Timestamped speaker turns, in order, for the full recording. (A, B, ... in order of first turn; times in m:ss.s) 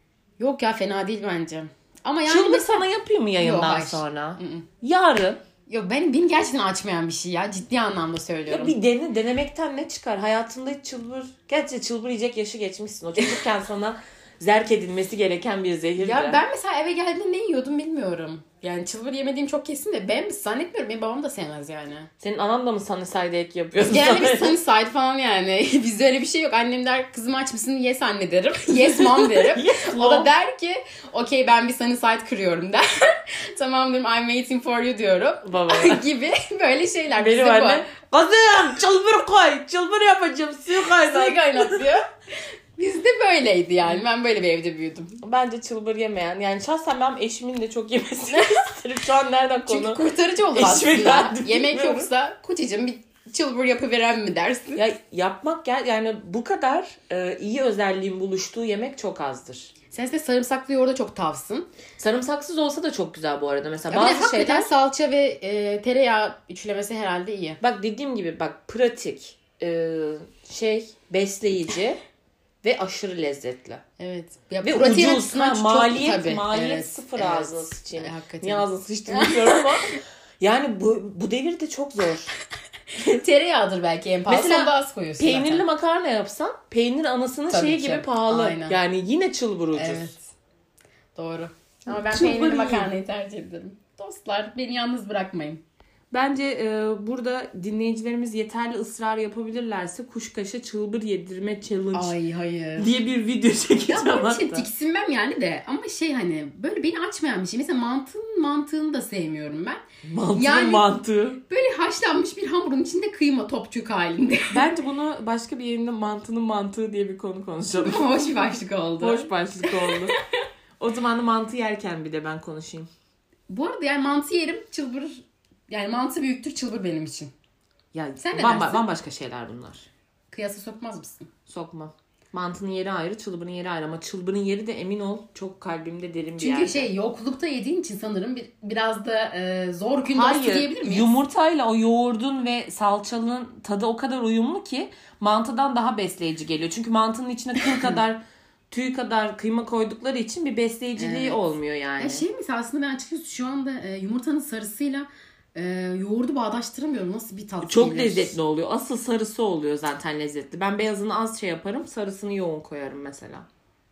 0:00.4-0:02.9 A
0:02.3-0:05.4 B
0:03.4-0:04.7 A
0:05.7-0:08.8 A
0:08.5-0:16.4 B
0:16.0-0:22.1 A
0:22.2-0:24.6 B
0:23.8-0:37.9 A
0:28.7-0:30.3 B
0:35.4-0:36.0 B
0:37.2-0:41.9 B
0:41.1-0:42.1 A
0:42.8-0:45.2 A
0:45.2-0:52.1 B
0:48.3-0:48.6 A
0:49.7-0:54.8 A
0:54.8-0:59.7 B
0:59.9-1:01.7 A
1:02.0-1:04.7 B
1:03.9-1:07.6 A
1:07.6-1:12.0 B
1:12.6-1:13.8 B
1:14.0-1:19.6 A
1:14.6-1:22.4 B
1:23.0-1:25.6 A
1:24.3-1:30.1 B
1:27.5-1:28.8 A
1:29.7-1:30.3 A
1:31.2-1:35.6 A
1:31.9-1:32.9 B
1:36.1-1:42.2 B
1:41.9-1:43.0 A
1:42.8-1:44.7 B
1:43.9-1:49.8 A
1:50.0-1:51.4 B
1:50.4-1:54.7 A
1:54.5-1:58.5 B
1:57.8-2:00.1 A
1:59.0-2:00.2 B
2:00.8-2:02.9 B
2:03.5-2:07.3 A
2:07.9-2:09.9 B
2:08.2-2:08.9 A
2:10.3-2:11.3 A
2:11.5-2:16.9 B
2:16.4-2:21.2 A
2:20.1-2:32.3 B
2:31.0-2:31.4 A
2:32.0-2:38.4 A
2:37.6-2:43.5 B